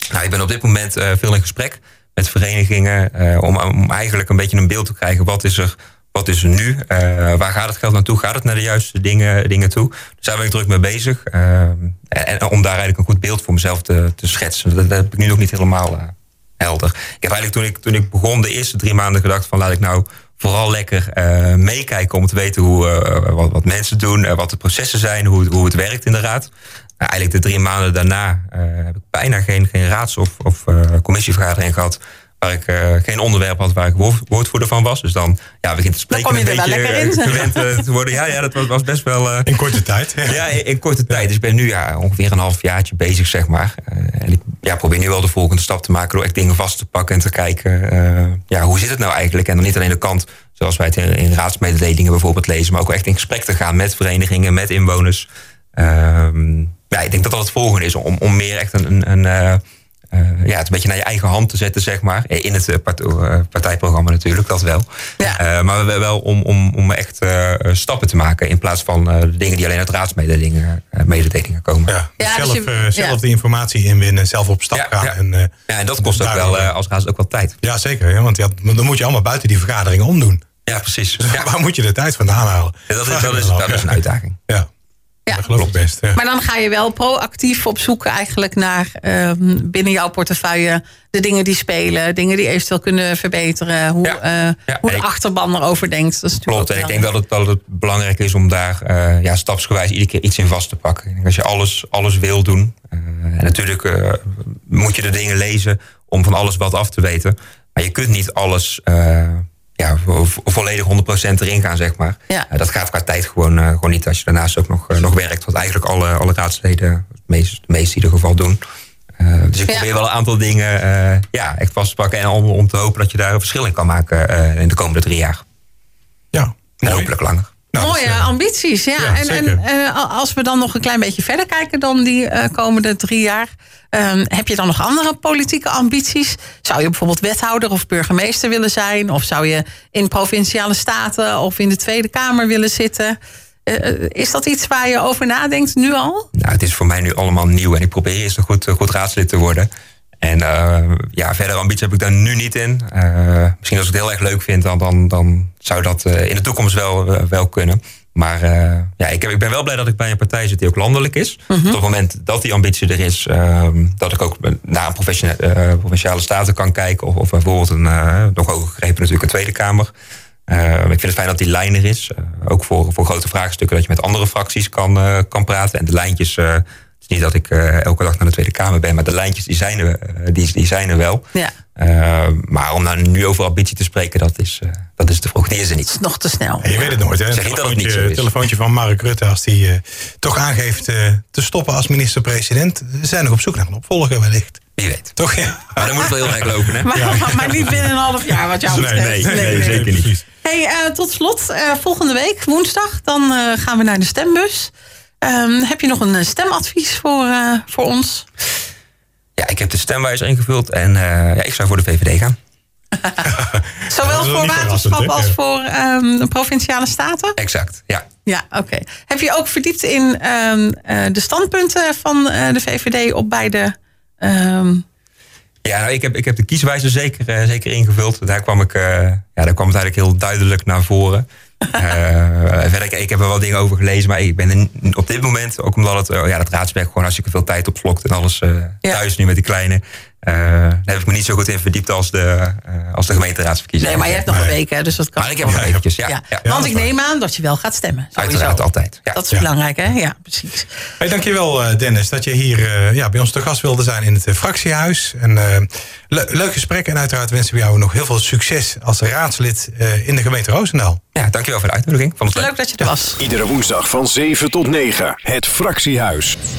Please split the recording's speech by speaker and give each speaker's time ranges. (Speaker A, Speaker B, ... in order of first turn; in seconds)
Speaker A: 0.1-39.6, 40.2-72.0, 74.7-75.2, 75.7-77.6, 80.7-81.5, 82.9-84.4, 94.0-95.1, 96.5-118.6, 119.2-125.4, 126.8-127.5, 146.3-149.7, 150.2-169.9, 170.5-181.2, 181.8-185.9, 187.3-188.3, 194.8-195.2, 195.7-197.3, 198.7-200.1, 209.4-212.4, 217.4-218.1, 225.6-244.5, 245.2-246.4, 248.2-249.2, 261.1-262.9
Speaker B: 36.1-37.8, 72.2-73.2, 85.3-85.6, 86.2-97.0, 127.8-146.3, 161.5-161.8, 185.9-187.0, 196.8-208.3, 213.0-213.3, 213.9-217.4, 218.3-224.8, 243.8-250.8, 262.3-263.2
Speaker C: 39.5-40.5, 71.9-76.7, 77.6-80.5, 81.2-83.9, 85.3-86.2, 126.3-127.1, 127.7-128.3, 129.0-129.6, 186.6-194.6, 195.2-196.4, 196.9-197.8, 198.7-200.2, 213.2-215.3, 244.3-244.6, 245.5-245.8, 246.4-246.9, 251.0-261.0
Speaker D: 263.2-266.4